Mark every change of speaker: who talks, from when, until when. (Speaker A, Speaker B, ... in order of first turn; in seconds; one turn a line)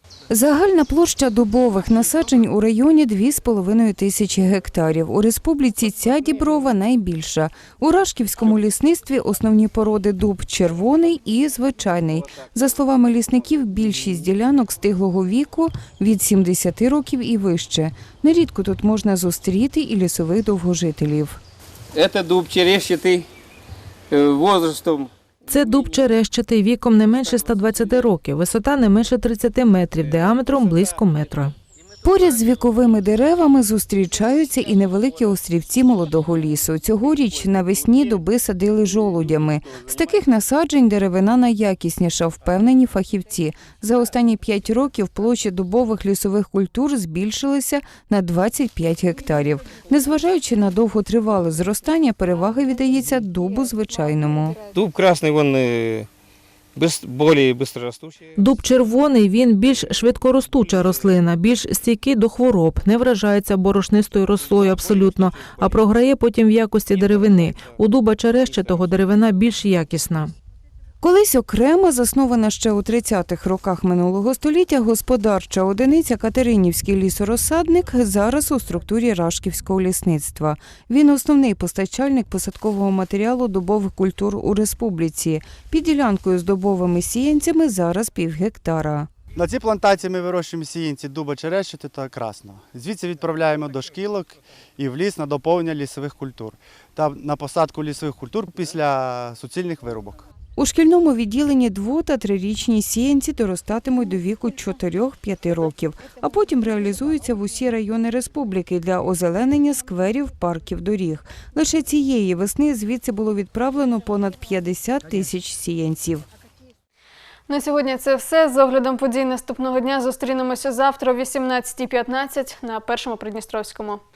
Speaker A: 0.3-21.4
Speaker B: 21.9-23.3
Speaker B: 24.1-25.1
Speaker C: 25.5-31.5
Speaker A: 32.0-54.6
Speaker B: 54.7-56.1
Speaker B: 56.7-58.2
Speaker C: 58.4-70.3
Speaker A: 71.0-89.1
Speaker D: 89.3-100.2
Speaker A: 100.6-116.2
Speaker E: 117.5-124.0